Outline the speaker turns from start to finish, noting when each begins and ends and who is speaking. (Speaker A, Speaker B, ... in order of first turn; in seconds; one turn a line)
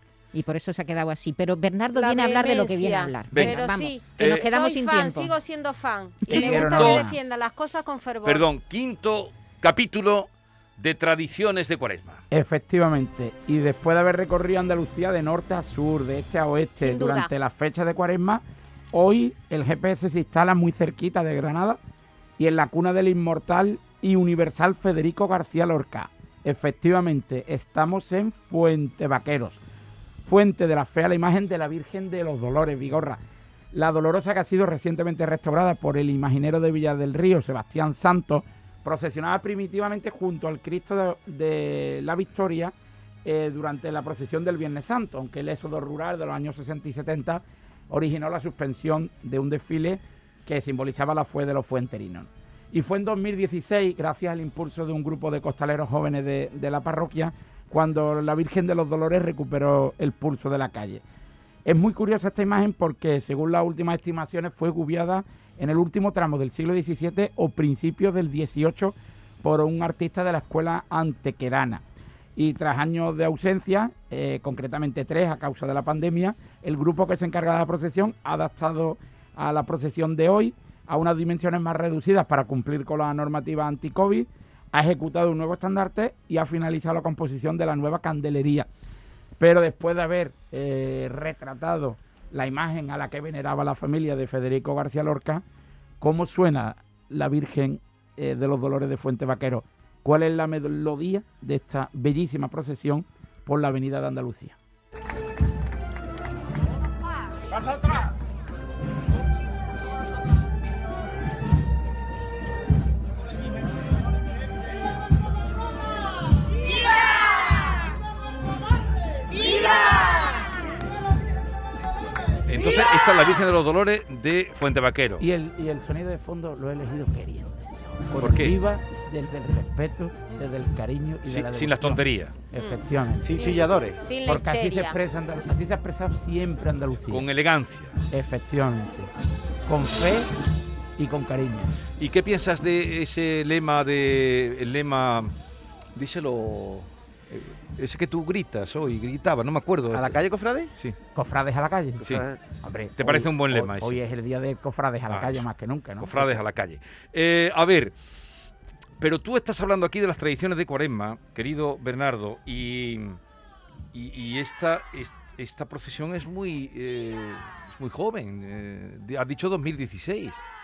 Speaker A: 0.3-5.3
Speaker B: 1.9-8.5
Speaker C: 3.3-4.5
Speaker D: 6.2-7.2
Speaker C: 6.3-7.1
Speaker C: 8.2-12.2
Speaker D: 12.3-21.8
Speaker B: 16.8-17.3
Speaker D: 22.4-29.6
Speaker D: 30.2-33.2
Speaker D: 33.7-61.0
Speaker D: 61.6-71.8
Speaker D: 72.4-88.7
Speaker D: 89.4-95.4
Speaker D: 96.0-104.6
Speaker C: 122.5-125.2
Speaker D: 125.2-133.4
Speaker C: 128.2-128.6
Speaker C: 131.3-132.4
Speaker E: 133.2-134.0
Speaker B: 133.4-135.0
Speaker D: 134.2-137.3
Speaker C: 137.1-138.0
Speaker D: 138.1-139.1
Speaker D: 139.7-140.3
Speaker D: 141.0-141.7
Speaker C: 142.0-145.3
Speaker C: 145.9-150.2
Speaker E: 149.9-150.7
Speaker D: 151.2-156.4
Speaker E: 152.1-152.4
Speaker C: 153.0-154.0
Speaker C: 155.1-155.5
Speaker C: 156.0-157.9
Speaker C: 159.0-163.2
Speaker C: 163.9-170.4